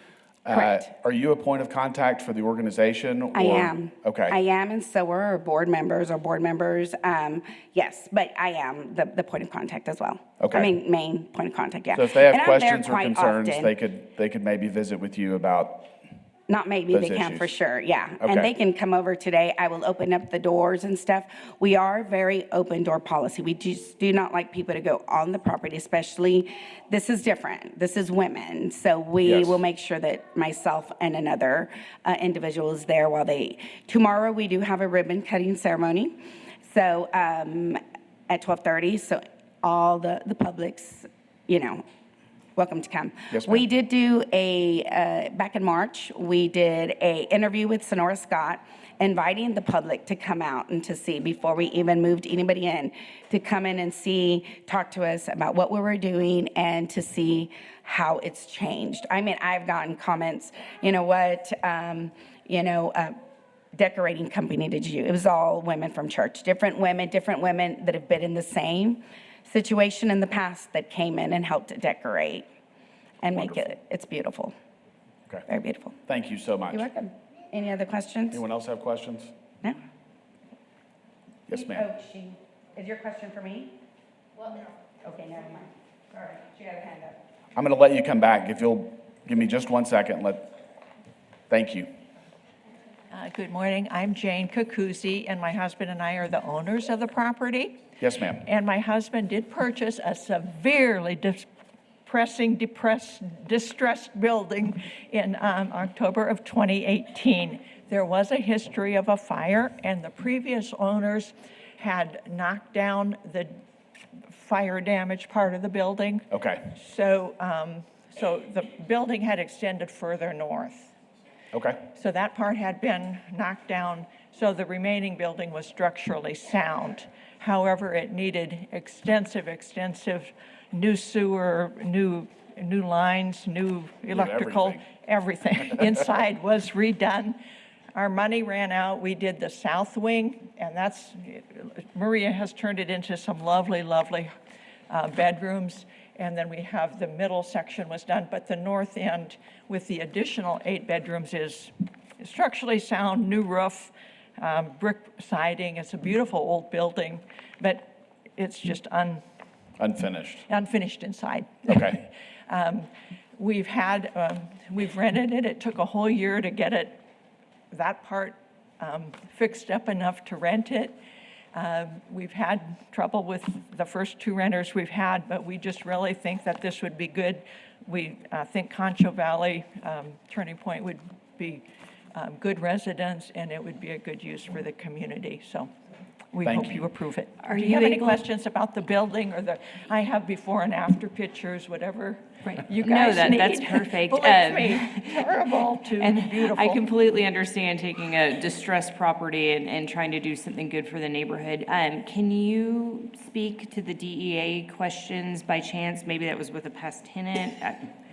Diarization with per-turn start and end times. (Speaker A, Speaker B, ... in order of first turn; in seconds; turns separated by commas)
Speaker A: 0.5-4.4, Speaker B: 0.5-0.8, Speaker B: 3.3-13.7, Speaker A: 10.4-10.7, Speaker A: 11.9-15.9, Speaker B: 16.5-41.8, Speaker A: 16.9-17.5, Speaker A: 18.2-18.5, Speaker A: 29.2-29.6, Speaker B: 42.6-63.2, Speaker A: 43.3-43.6, Speaker B: 63.7-72.5, Speaker B: 73.2-74.5, Speaker A: 73.3-73.6, Speaker B: 75.5-76.0, Speaker A: 76.1-76.8, Speaker B: 76.7-78.4, Speaker A: 78.3-79.3, Speaker A: 81.5-81.9, Speaker B: 81.5-83.8, Speaker B: 84.4-87.2, Speaker A: 87.6-90.5, Speaker A: 91.5-91.9, Speaker C: 93.1-101.5, Speaker A: 98.0-98.4, Speaker C: 102.0-113.6, Speaker C: 114.3-120.9, Speaker A: 116.3-116.7, Speaker A: 121.5-121.9, Speaker C: 121.9-137.4, Speaker A: 134.1-134.9, Speaker C: 137.9-144.3, Speaker C: 144.9-159.2, Speaker A: 159.8-160.4, Speaker C: 160.5-167.0, Speaker A: 161.7-162.0, Speaker C: 167.7-171.0, Speaker C: 171.5-185.7, Speaker C: 186.3-196.8, Speaker A: 186.4-186.8, Speaker D: 187.4-188.2, Speaker D: 192.5-207.9